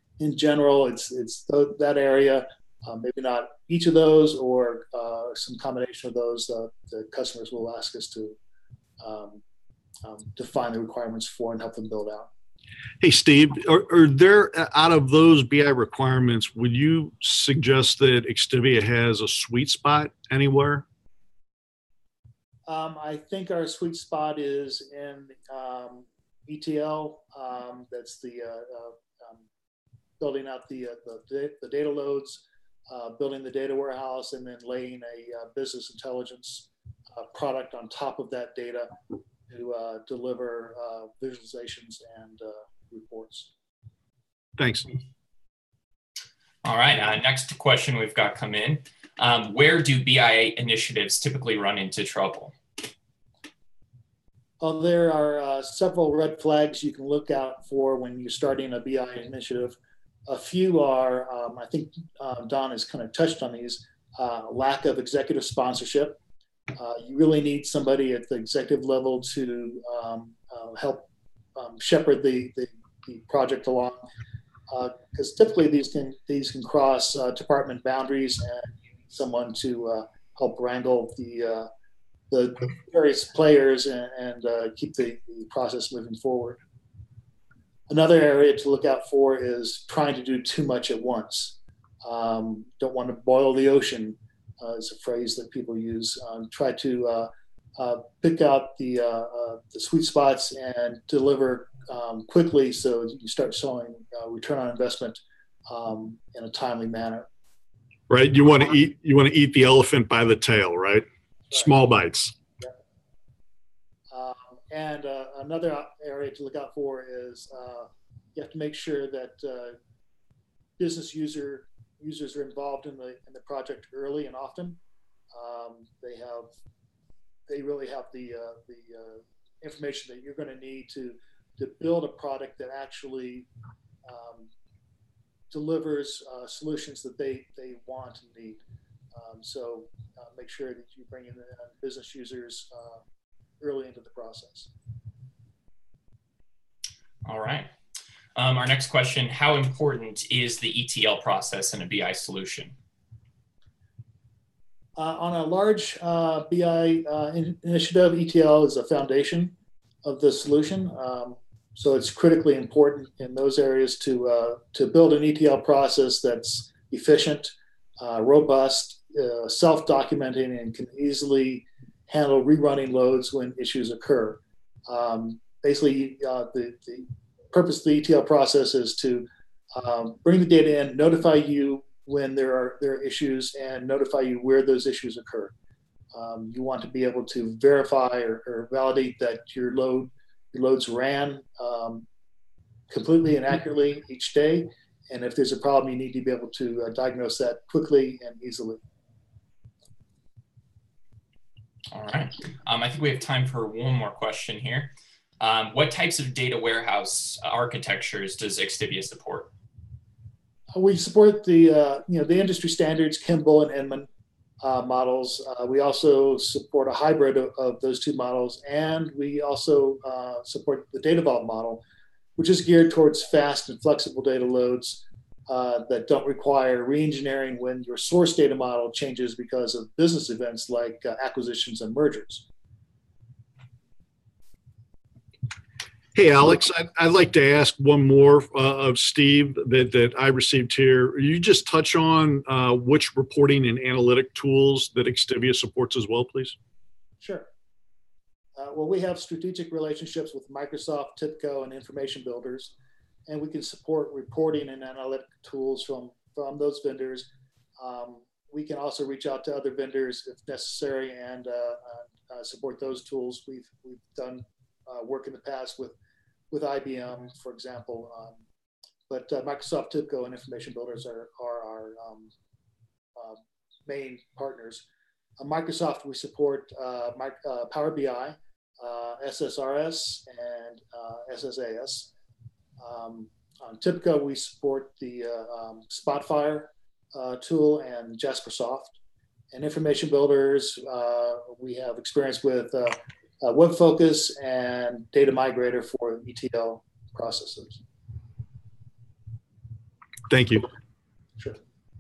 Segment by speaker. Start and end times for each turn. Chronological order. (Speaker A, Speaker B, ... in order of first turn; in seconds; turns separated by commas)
Speaker A: 0.2-8.4, Speaker A: 9.0-9.4, Speaker A: 10.1-12.3, Speaker B: 13.0-20.9, Speaker A: 22.7-29.4, Speaker A: 30.2-38.9, Speaker A: 39.5-43.5, Speaker B: 44.6-44.9, Speaker C: 46.6-52.5, Speaker A: 54.6-66.2, Speaker A: 66.8-74.0, Speaker A: 74.7-81.7, Speaker A: 82.3-86.6, Speaker A: 87.9-107.3, Speaker B: 108.1-112.4, Speaker A: 114.1-119.8, Speaker A: 120.8-124.8, Speaker A: 125.3-126.5, Speaker A: 127.5-133.5, Speaker A: 134.1-134.5, Speaker A: 135.5-138.6, Speaker A: 139.1-143.0, Speaker A: 143.6-144.7, Speaker C: 147.2-147.7, Speaker C: 148.4-152.8, Speaker A: 155.0-159.5, Speaker A: 160.0-185.5, Speaker A: 186.1-192.1, Speaker A: 192.9-198.8, Speaker C: 201.9-209.5, Speaker A: 210.7-214.1, Speaker A: 214.6-221.8, Speaker A: 222.4-232.4, Speaker B: 236.2-246.6, Speaker A: 247.2-247.5, Speaker A: 248.6-252.7, Speaker A: 253.3-257.3, Speaker A: 257.8-265.9, Speaker A: 266.5-268.4, Speaker A: 269.1-272.3, Speaker A: 273.1-274.9, Speaker A: 275.4-282.1, Speaker A: 282.8-289.0, Speaker A: 289.5-297.8, Speaker B: 300.3-300.7